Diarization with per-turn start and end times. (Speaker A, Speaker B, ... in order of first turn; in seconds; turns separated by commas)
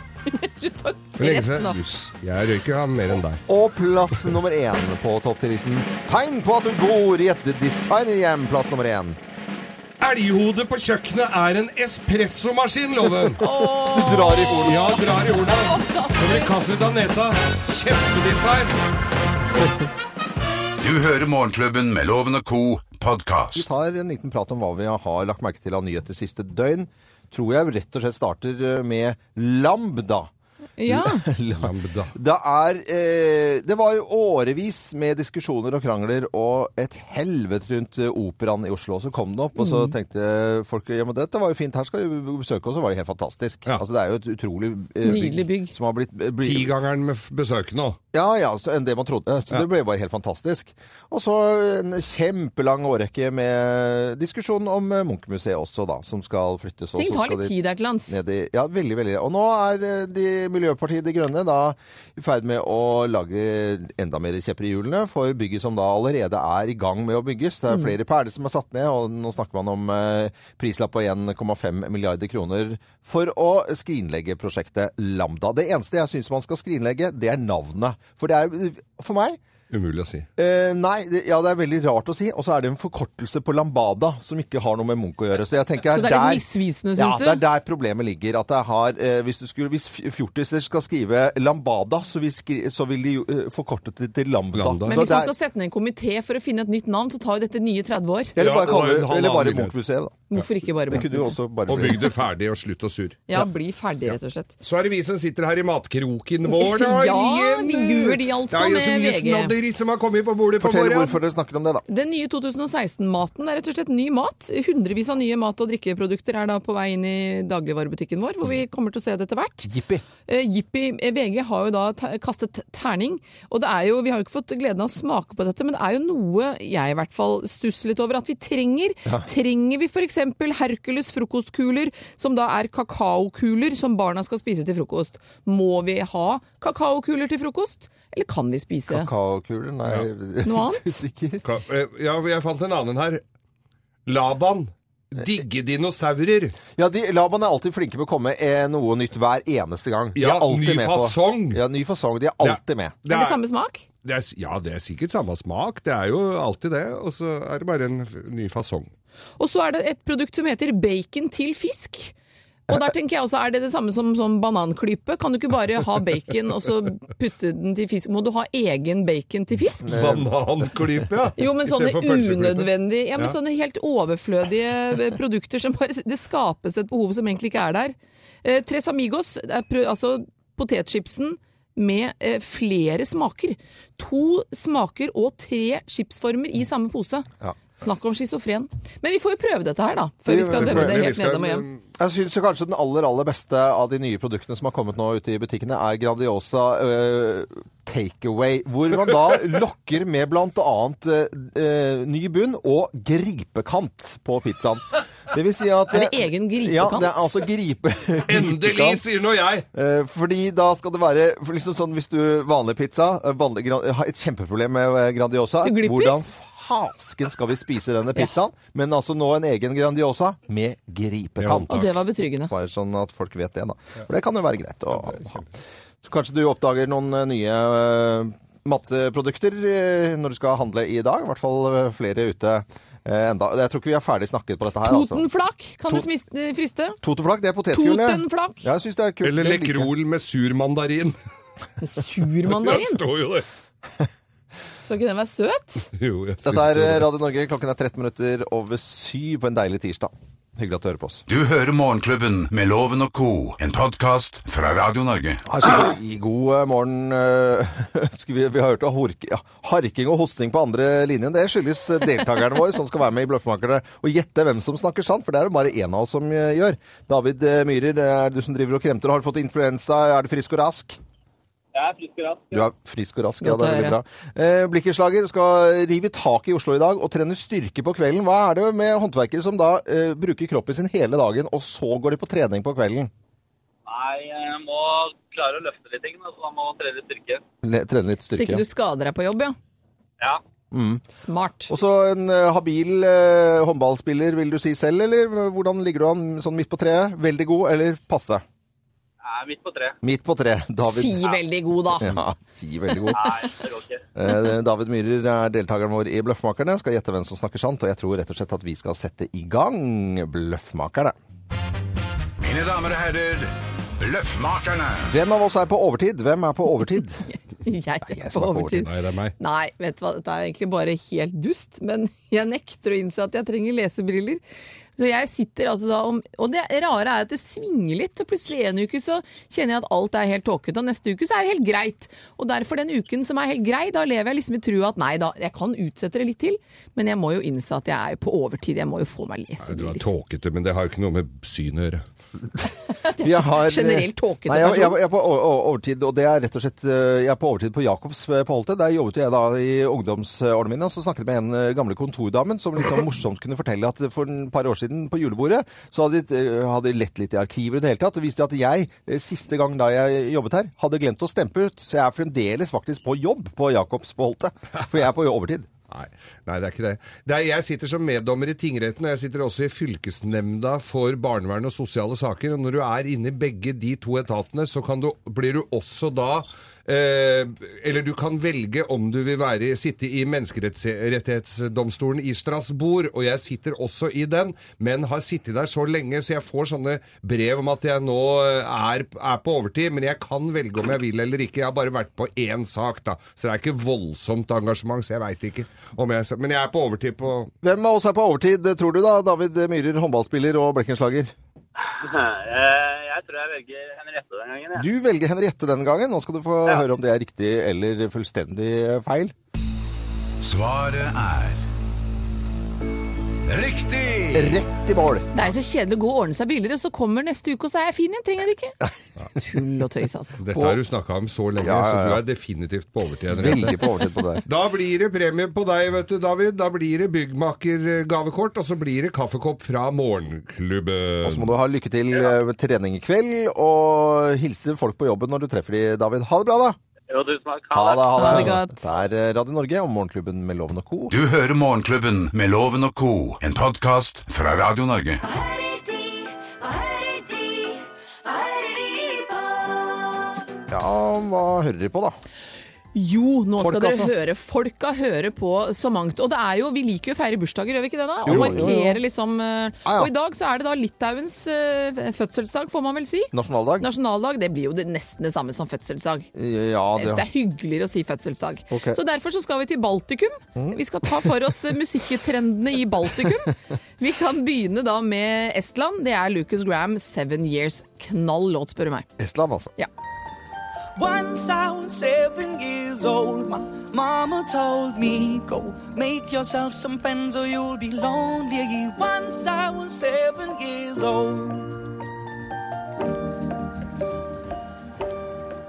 Speaker A: 0.3-1.8, Speaker B: 1.2-3.4, Speaker C: 3.5-9.2, Speaker B: 10.0-13.4, Speaker A: 13.4-16.7, Speaker C: 13.8-14.9, Speaker B: 14.6-18.8, Speaker D: 20.8-23.6, Speaker C: 23.5-30.3, Speaker A: 30.8-31.2, Speaker C: 30.9-46.7, Speaker B: 31.6-32.1, Speaker A: 39.6-39.9, Speaker A: 45.0-45.7, Speaker B: 46.4-48.0, Speaker C: 48.1-57.5, Speaker A: 57.0-58.2, Speaker C: 58.1-79.4, Speaker B: 79.7-80.3, Speaker C: 80.4-86.5, Speaker A: 85.9-87.4, Speaker C: 87.0-95.3, Speaker B: 94.5-95.1, Speaker A: 94.9-98.3, Speaker C: 98.3-100.3, Speaker B: 98.4-99.7, Speaker A: 100.3-101.3, Speaker C: 100.9-102.1, Speaker B: 101.7-103.4, Speaker A: 103.3-104.5, Speaker B: 104.6-111.2, Speaker A: 106.5-109.5, Speaker C: 110.6-111.8, Speaker A: 111.9-119.7, Speaker C: 119.7-120.0, Speaker A: 120.2-139.1, Speaker C: 138.9-141.4, Speaker A: 140.4-141.0, Speaker B: 141.4-143.2, Speaker B: 144.1-146.6, Speaker C: 146.7-153.0, Speaker B: 150.2-151.6, Speaker B: 152.4-153.4, Speaker A: 153.1-153.8, Speaker B: 154.0-158.9, Speaker A: 159.4-162.1, Speaker A: 162.7-170.0, Speaker B: 169.9-173.3, Speaker C: 169.9-170.3, Speaker A: 171.4-191.7, Speaker C: 190.3-191.1, Speaker B: 190.4-191.8, Speaker C: 192.0-209.0, Speaker A: 205.9-207.3, Speaker B: 208.3-209.7, Speaker C: 209.7-225.4, Speaker A: 215.6-216.2, Speaker B: 221.4-221.9, Speaker A: 221.7-222.5, Speaker B: 225.0-225.4, Speaker C: 226.0-235.2, Speaker A: 234.8-237.0, Speaker C: 237.0-239.9, Speaker A: 237.7-238.7, Speaker B: 239.2-241.2, Speaker A: 241.8-243.0, Speaker B: 242.4-243.4, Speaker A: 244.8-245.9, Speaker B: 245.9-247.1, Speaker C: 246.4-251.2, Speaker D: 251.3-255.4, Speaker C: 255.4-271.0, Speaker E: 271.7-272.7, Speaker C: 272.5-283.1, Speaker A: 273.4-274.0, Speaker E: 283.9-287.4, Speaker C: 287.6-288.6, Speaker A: 288.3-289.6, Speaker C: 290.7-291.0, Speaker A: 291.1-291.7, Speaker C: 291.7-298.4, Speaker E: 299.2-300.0, Speaker C: 300.0-301.3, Speaker A: 300.8-302.1, Speaker C: 302.0-303.4, Speaker E: 303.1-304.0, Speaker C: 304.1-311.1, Speaker D: 312.4-315.1, Speaker C: 315.1-317.2, Speaker A: 317.3-324.4, Speaker C: 318.0-318.9, Speaker B: 318.8-319.3, Speaker A: 325.0-340.1, Speaker B: 339.6-342.0, Speaker A: 343.0-345.0, Speaker C: 343.2-365.7, Speaker B: 365.9-397.5, Speaker C: 397.6-401.3, Speaker E: 401.9-404.8, Speaker C: 404.8-409.3, Speaker D: 410.4-411.6, Speaker D: 413.5-414.6, Speaker C: 414.3-415.4, Speaker A: 415.3-418.8, Speaker A: 419.4-420.4, Speaker B: 420.4-423.8, Speaker C: 420.5-420.8, Speaker C: 421.6-422.2, Speaker C: 423.3-424.4, Speaker B: 424.4-431.5, Speaker C: 431.2-436.8, Speaker E: 437.1-438.2, Speaker C: 437.7-441.1, Speaker A: 438.2-438.9, Speaker D: 441.1-445.2, Speaker F: 445.2-450.4, Speaker C: 450.7-452.2, Speaker A: 452.9-466.3, Speaker C: 453.6-454.1, Speaker C: 458.2-459.0, Speaker C: 459.8-460.1, Speaker C: 463.3-463.9, Speaker C: 466.3-467.3, Speaker A: 467.0-479.1, Speaker C: 468.7-469.0, Speaker C: 470.6-471.5, Speaker C: 479.2-479.7, Speaker G: 480.9-491.8